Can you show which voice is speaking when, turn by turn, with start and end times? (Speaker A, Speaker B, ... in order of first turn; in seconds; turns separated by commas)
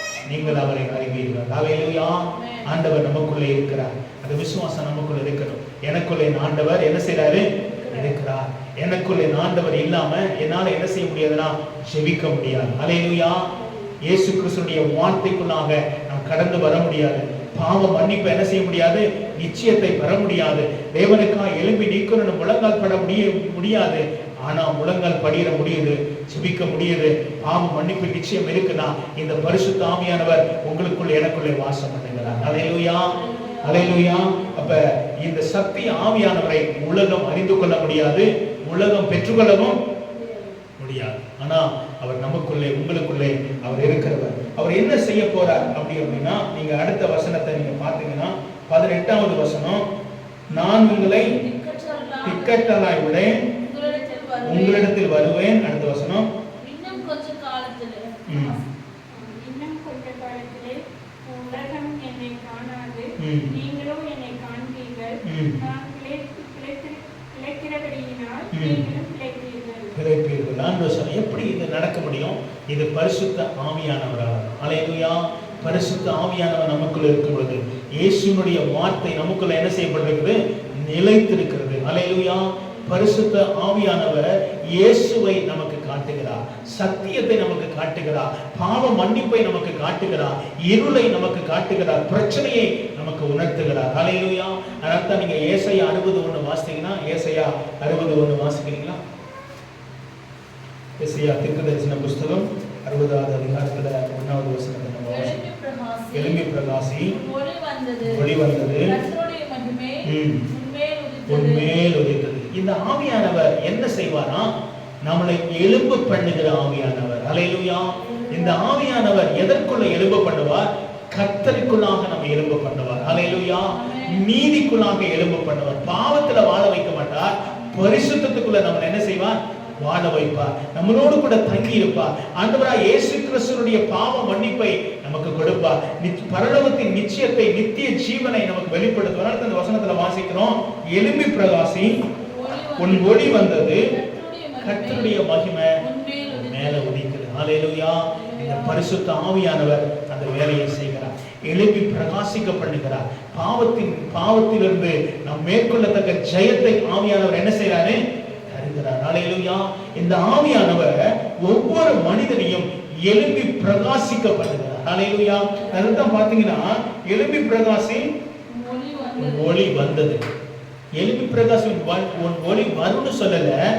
Speaker A: 0.2-13.5, Speaker B: 2.3-2.8, Speaker B: 7.5-8.1, Speaker B: 13.6-13.9, Speaker A: 14.0-39.8, Speaker B: 33.1-34.8, Speaker B: 40.1-40.6, Speaker A: 40.8-49.8, Speaker B: 43.6-44.1, Speaker B: 45.5-46.1, Speaker A: 50.5-51.4, Speaker B: 50.5-54.9, Speaker A: 52.2-53.4, Speaker A: 54.5-56.3, Speaker B: 56.6-59.5, Speaker A: 58.3-58.6, Speaker C: 59.3-69.9, Speaker A: 63.2-63.5, Speaker A: 65.2-65.6, Speaker B: 68.5-68.8, Speaker A: 68.5-68.9, Speaker A: 70.0-99.0, Speaker B: 75.5-76.2, Speaker A: 101.0-105.4, Speaker B: 105.0-106.5, Speaker A: 106.1-107.1, Speaker B: 107.0-111.7, Speaker A: 108.0-109.0, Speaker A: 110.0-110.4, Speaker A: 111.3-114.5, Speaker A: 115.0-142.1, Speaker B: 118.0-118.7, Speaker B: 123.7-124.2, Speaker B: 127.5-128.0, Speaker B: 129.6-129.9, Speaker B: 142.1-145.2, Speaker A: 142.8-143.9, Speaker A: 144.6-145.8, Speaker B: 145.8-146.9, Speaker A: 146.3-168.1, Speaker B: 148.1-148.8, Speaker B: 165.6-166.1, Speaker B: 168.5-169.5, Speaker A: 169.2-170.2, Speaker A: 171.0-173.6